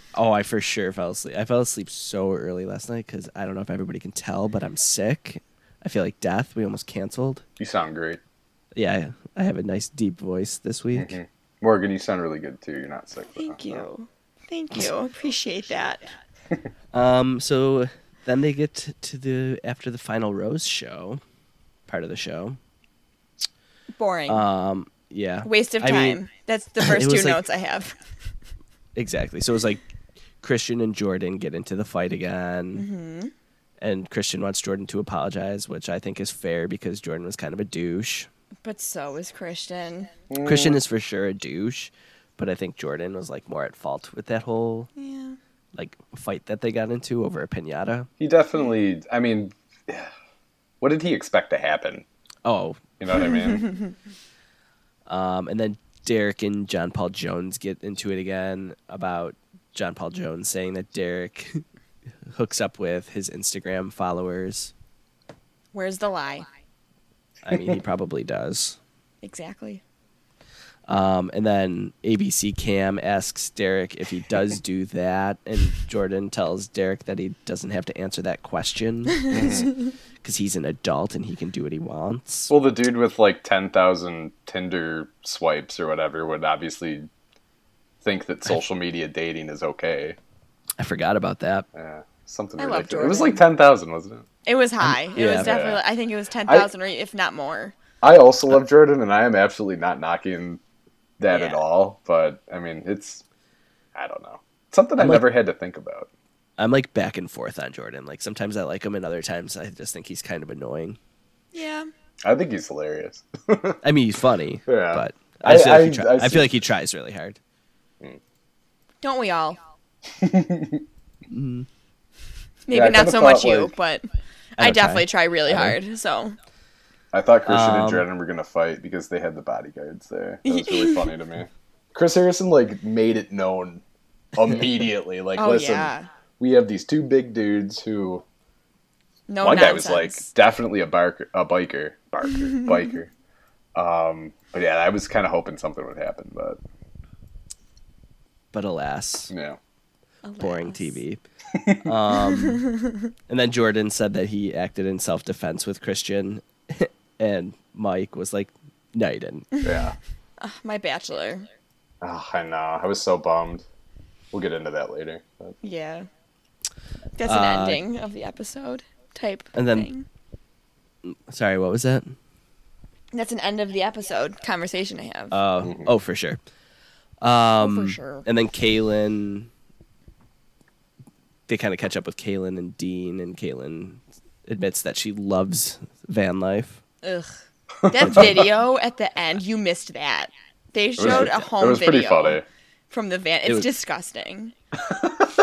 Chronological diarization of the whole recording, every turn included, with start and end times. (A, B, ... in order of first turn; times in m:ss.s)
0:00.1-0:07.4 A
0:07.6-0:08.2 B
0:08.7-0:11.1 A
0:10.9-0:13.8 B
0:13.4-0:16.1 C
0:16.9-0:21.2 A
0:21.9-0:22.6 A
0:24.0-0:24.4 C
0:24.3-0:26.2 A
0:25.4-0:28.0 C
0:26.8-0:27.4 A
0:29.0-0:29.8 A
0:30.4-0:32.8 A
0:32.8-0:33.3 C
0:33.8-0:38.3 A
0:38.6-0:40.1 C
0:40.3-0:40.8 B
0:40.4-0:44.9 A
0:45.0-0:45.4 C
0:45.7-0:48.1 A
0:48.2-0:50.1 B
0:50.8-0:52.0 B
0:52.4-0:52.8 A
0:53.0-0:53.7 B
0:55.1-1:01.6 A
1:02.3-1:04.7 A
1:05.7-1:06.4 C
1:07.4-1:08.8 A
1:09.2-1:09.8 C
1:10.9-1:19.7 A
1:19.3-1:19.7 B
1:20.2-1:22.5 A
1:22.5-1:27.1 B
1:28.0-1:30.2 B
1:30.8-1:31.6 A
1:31.7-1:34.2 B
1:32.6-1:33.4 C
1:34.4-1:37.7 C
1:34.8-1:35.5 A
1:35.4-1:35.8 B
1:38.0-1:40.6 B
1:41.2-1:43.2 B
1:41.3-1:41.6 C
1:43.9-1:46.1 B
1:45.0-1:45.3 A
1:46.6-1:51.0 A
1:51.5-1:51.9 C
1:52.2-1:53.8 B
1:53.8-1:57.4 A
1:54.7-1:56.6 B
1:59.0-1:59.6 C
2:00.2-2:00.8 B
2:01.3-2:01.7 A
2:02.7-2:04.0 C
2:02.7-2:03.7 B
2:04.6-2:05.8 A
2:04.6-2:06.4 C
2:07.1-2:13.8 B
2:07.4-2:08.0 A
2:10.4-2:11.1 C
2:14.3-2:18.2 B
2:15.4-2:16.1 C
2:19.3-2:20.3 C
2:19.4-2:23.1 B
2:23.7-2:26.6 B
2:28.5-2:29.3 A
2:29.3-2:29.6 B
2:30.2-2:31.0 C
2:30.4-2:31.2 A
2:31.8-2:32.7 A
2:32.3-2:33.0 C
2:33.3-2:39.5 A
2:39.5-2:41.4 C
2:39.6-2:40.0 B
2:42.0-2:43.6 B
2:44.3-2:45.6 B
2:45.6-2:46.1 C
2:47.2-2:50.0 C
2:47.2-2:47.8 A
2:49.5-2:49.9 A
2:51.0-2:52.2 A
2:53.1-2:55.4 C
2:55.3-2:56.4 A
2:55.6-2:55.9 B
2:57.2-2:59.5 A
2:57.6-2:58.2 C
3:01.5-3:06.8 A
3:07.0-3:14.5 C
3:07.8-3:08.4 B
3:08.0-3:08.5 A
3:11.0-3:12.4 B
3:11.0-3:11.4 A